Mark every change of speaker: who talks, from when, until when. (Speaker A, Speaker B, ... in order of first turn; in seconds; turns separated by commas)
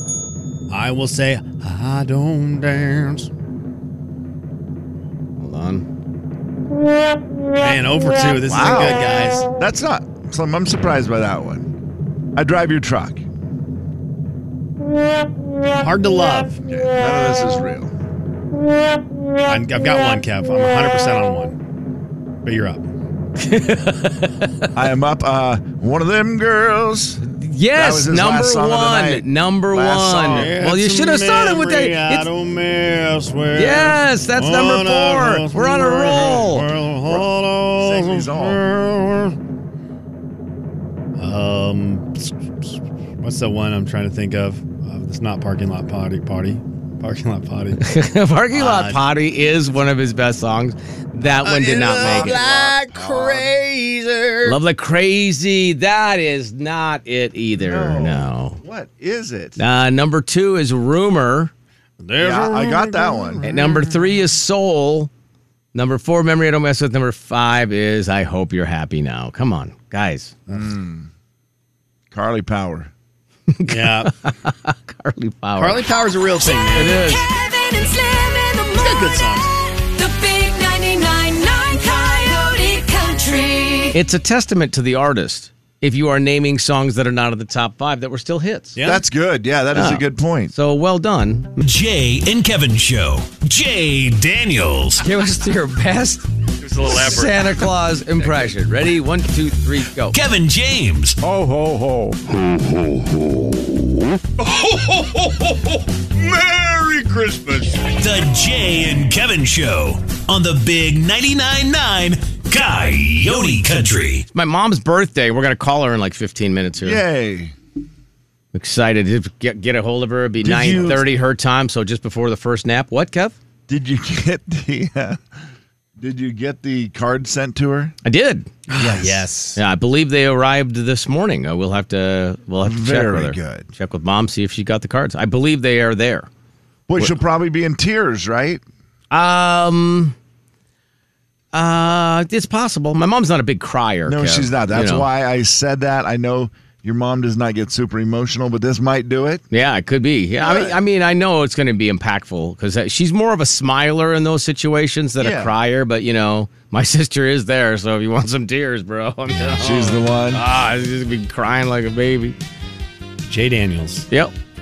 Speaker A: 0.7-3.3, Speaker B: 5.4-5.8, Speaker A: 7.6-9.5, Speaker C: 8.4-9.1, Speaker B: 8.5-9.0, Speaker C: 9.6-11.7, Speaker C: 12.3-13.2, Speaker A: 15.7-16.6, Speaker C: 16.7-17.9, Speaker A: 19.4-21.6, Speaker A: 22.4-22.8, Speaker B: 23.4-24.7, Speaker C: 24.7-27.2, Speaker B: 27.2-32.3, Speaker C: 27.7-30.5, Speaker A: 30.2-39.4, Speaker B: 33.5-36.7, Speaker C: 37.0-38.6, Speaker A: 41.2-42.7, Speaker A: 43.2-47.8, Speaker B: 47.8-52.4, Speaker A: 48.5-49.0, Speaker A: 51.3-54.6, Speaker C: 51.6-53.5, Speaker B: 54.4-58.6, Speaker C: 57.5-59.6, Speaker B: 59.6-61.5, Speaker A: 62.0-64.2, Speaker C: 62.2-63.5, Speaker B: 63.5-65.1, Speaker B: 65.7-70.3, Speaker C: 70.5-71.1, Speaker C: 72.1-72.9, Speaker B: 73.5-75.9, Speaker A: 73.7-74.1, Speaker A: 75.6-77.0, Speaker D: 76.4-84.0, Speaker B: 76.7-77.2, Speaker A: 78.8-79.5, Speaker B: 83.9-88.8, Speaker A: 88.7-89.0, Speaker C: 88.8-90.5, Speaker B: 89.7-91.5, Speaker E: 91.6-95.0, Speaker B: 95.0-96.2, Speaker B: 96.8-100.2, Speaker E: 100.1-101.2, Speaker C: 101.2-102.2, Speaker C: 106.3-107.5, Speaker E: 107.7-114.2, Speaker B: 114.3-117.0, Speaker C: 116.8-117.5, Speaker B: 118.5-123.3, Speaker C: 120.4-121.0, Speaker C: 123.7-125.2, Speaker C: 126.0-128.0, Speaker B: 128.0-128.5, Speaker A: 128.7-129.6, Speaker C: 128.7-129.3, Speaker B: 129.6-136.3, Speaker C: 132.6-133.7, Speaker C: 136.9-138.6, Speaker B: 139.1-140.1, Speaker B: 141.5-145.1, Speaker C: 144.1-149.4, Speaker B: 149.5-162.3, Speaker C: 150.4-150.8, Speaker C: 155.2-155.5, Speaker C: 159.6-160.4, Speaker A: 163.2-164.1